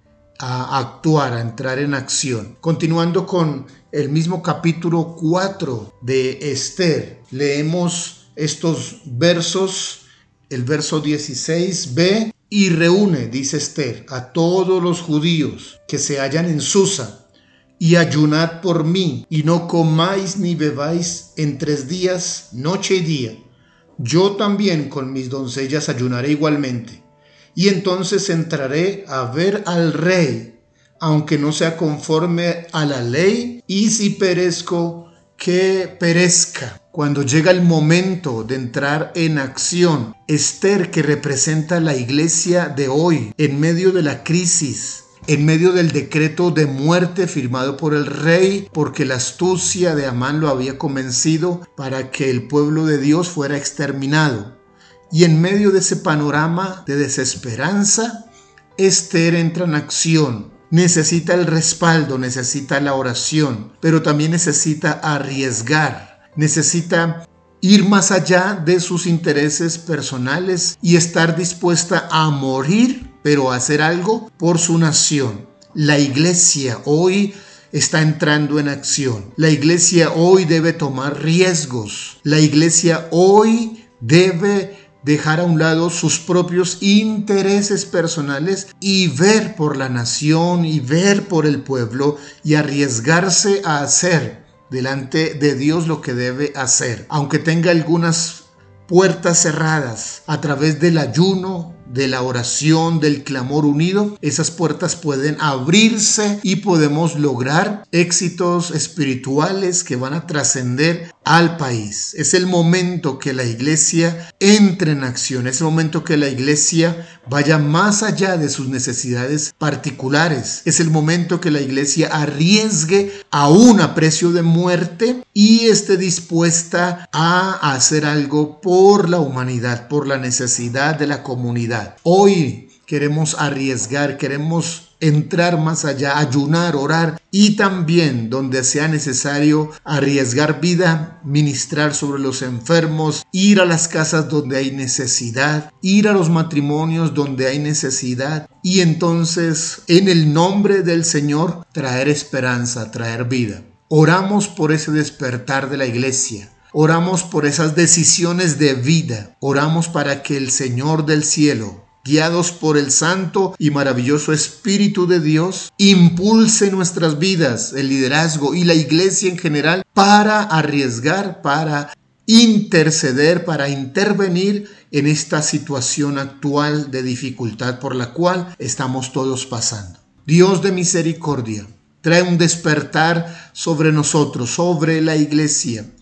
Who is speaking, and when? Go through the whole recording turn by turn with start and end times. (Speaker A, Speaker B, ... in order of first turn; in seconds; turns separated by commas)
Speaker A: 0.4-17.2, Speaker A: 17.8-23.4, Speaker A: 24.0-27.0, Speaker A: 27.5-54.6, Speaker A: 55.1-185.9